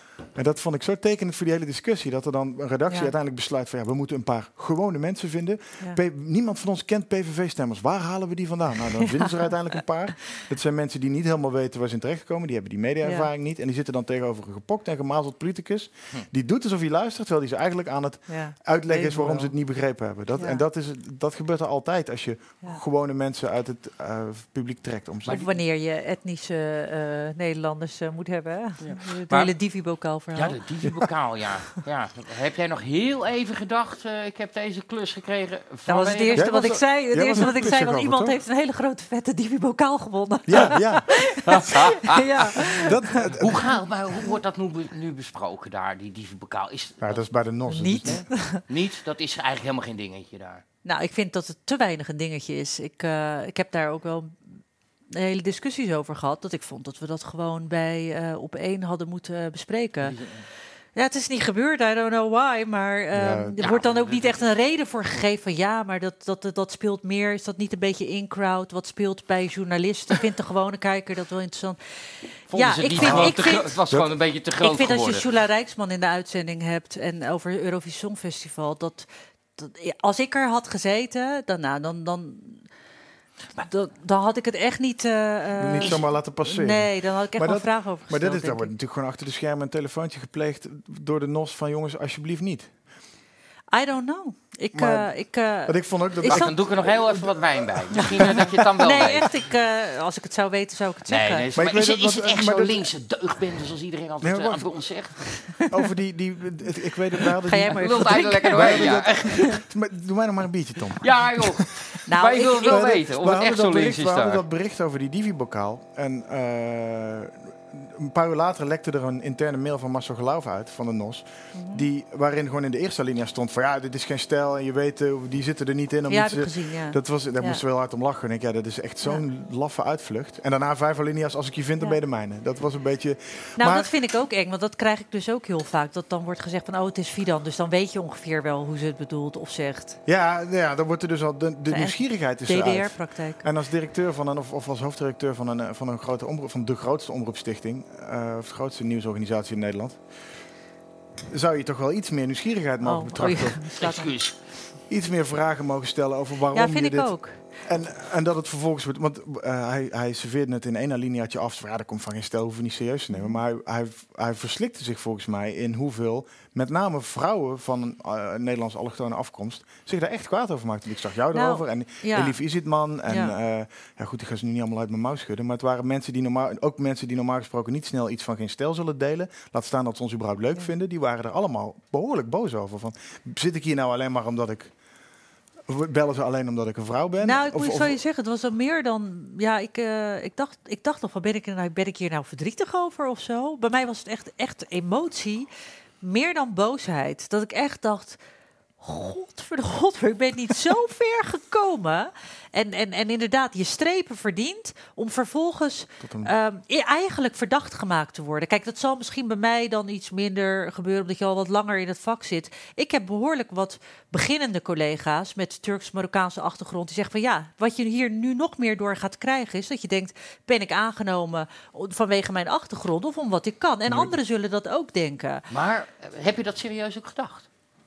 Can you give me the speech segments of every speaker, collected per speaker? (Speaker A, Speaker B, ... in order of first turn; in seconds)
Speaker A: 0.3-25.5, 36.3-38.4, 40.5-41.1, 42.6-43.7, 47.0-48.2, 63.1-63.6, 73.0-73.4, 85.6-92.7, 94.7-95.1, 95.6-98.5, 101.5-102.9, 104.2-104.9, 105.7-111.7, 112.7-133.9, 140.1-150.0, 151.3-153.6, 154.9-184.7, 185.7-188.0, 206.0-206.3, 223.9-224.1
Speaker B: 9.0-9.3, 13.0-13.3, 18.3-19.6, 20.4-20.6, 25.3-30.6, 35.9-43.3, 47.7-48.6, 50.9-54.6, 55.1-60.1, 61.0-71.8, 72.5-73.7, 74.6-82.7, 83.6-88.7, 93.7-96.6, 97.9-101.4, 105.6-105.9, 107.5-109.6, 112.1-113.0, 121.5-121.8, 126.1-127.6, 133.6-140.0, 141.7-143.4, 152.8-154.1, 156.5-157.4, 163.1-163.4, 171.3-172.4, 173.1-173.3, 187.2-195.5, 196.0-198.2, 198.8-225.4
Speaker C: 28.8-29.5, 30.3-36.5, 41.5-42.8, 43.4-47.2, 48.1-50.6, 60.0-60.5, 63.6-64.5, 72.5-75.3, 96.3-99.3, 101.1-105.2, 107.7-109.5, 111.0-114.4, 153.8-154.4, 225.5-227.5